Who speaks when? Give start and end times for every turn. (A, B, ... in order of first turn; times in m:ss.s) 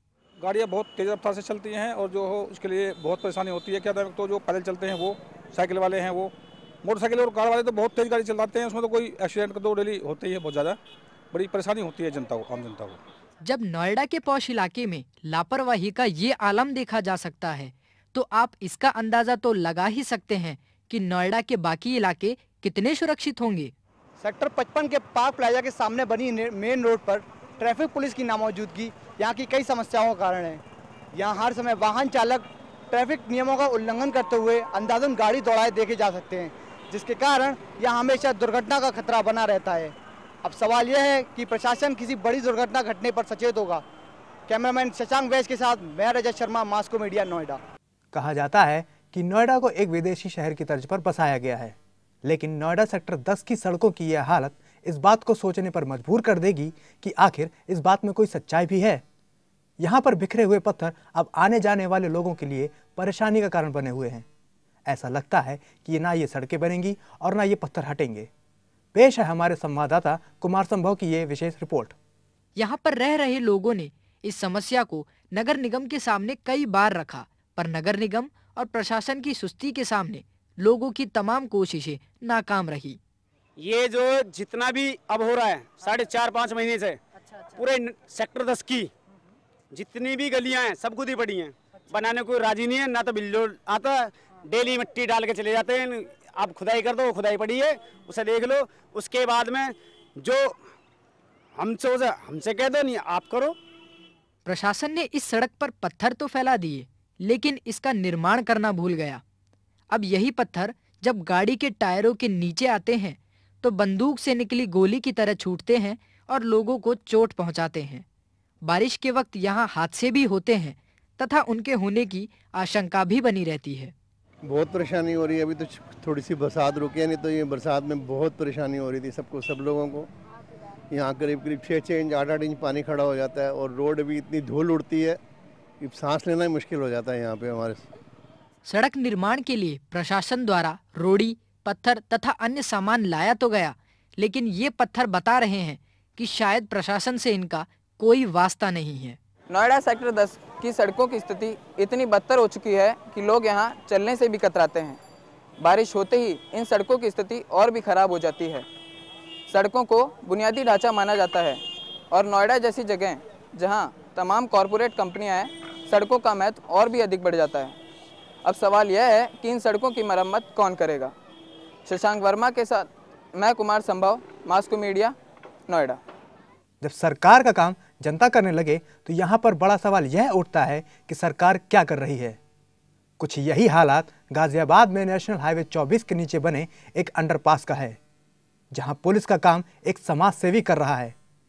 0:00.4-0:06.3 A
0:06.8-0:10.8 A
0:11.3-0:13.0 A
0:13.4-0:23.7 B
0:24.2-0:30.6 C
0:31.2-0:43.8 C
0:44.5-0:47.6 C
0:48.1-0:59.0 D
0:59.8-1:04.2 D
1:04.9-1:08.3 D
1:08.9-1:11.9 D
1:12.6-1:23.0 B
1:23.6-1:27.0 E
1:27.5-1:28.9 E
1:29.7-1:40.6 E
1:41.5-1:43.6 E
1:44.4-1:49.2 B
1:49.9-1:58.0 B
1:58.6-2:03.9 B
2:04.5-2:10.0 F
2:11.0-2:15.2 F
2:15.8-2:17.8 F
2:18.7-2:29.2 B
2:29.5-2:35.0 G
2:35.6-2:38.7 G
2:39.5-2:41.6 G
2:42.1-2:47.8 G
2:48.4-2:51.1 G
2:51.9-2:55.1 G
2:55.7-2:56.0 G
2:56.8-3:02.4 D
3:03.2-3:08.0 D
3:08.7-3:11.2 D